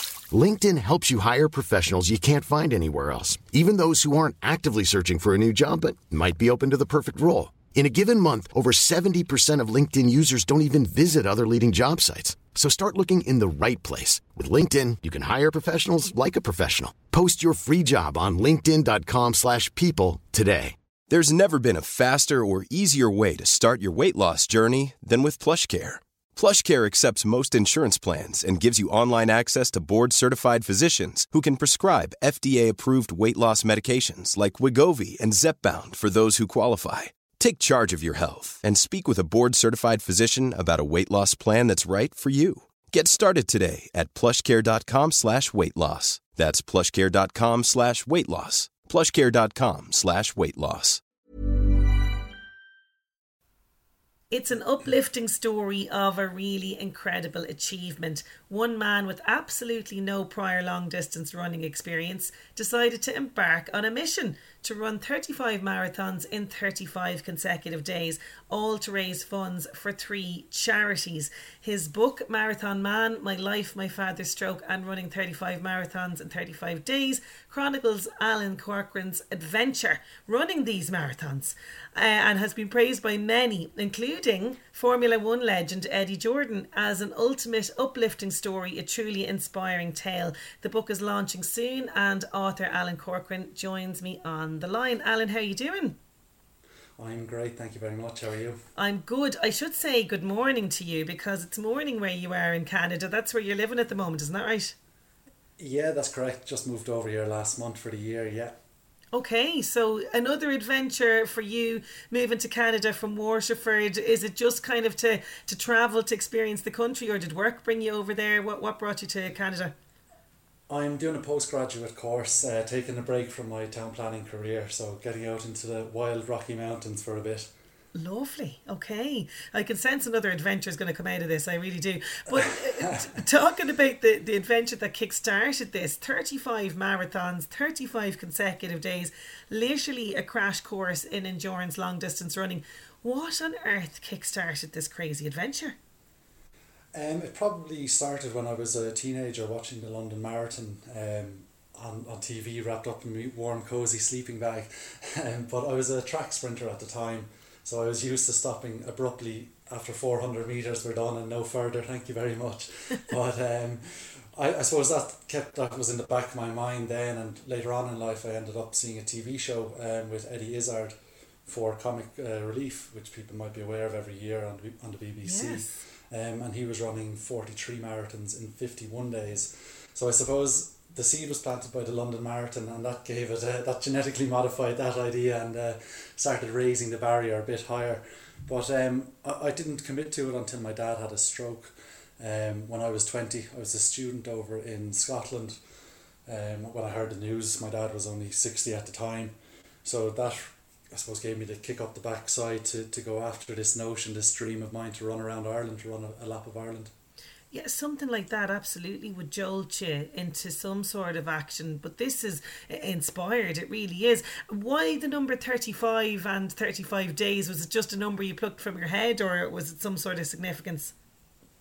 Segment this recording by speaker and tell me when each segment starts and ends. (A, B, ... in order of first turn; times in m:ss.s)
0:00.3-0:20.8 A
0:21.1-0:51.0 B
0:54.3-1:36.0 C
1:37.0-1:38.6 D
1:38.8-1:44.8 C
1:45.6-1:48.6 D
1:49.1-1:59.7 C
2:00.7-2:07.5 D
2:08.0-2:25.8 C
2:26.9-2:50.9 D
2:51.5-3:15.6 D
2:55.2-2:55.7 C
3:16.3-3:19.3 D
3:19.8-3:26.9 D
3:27.5-3:40.9 C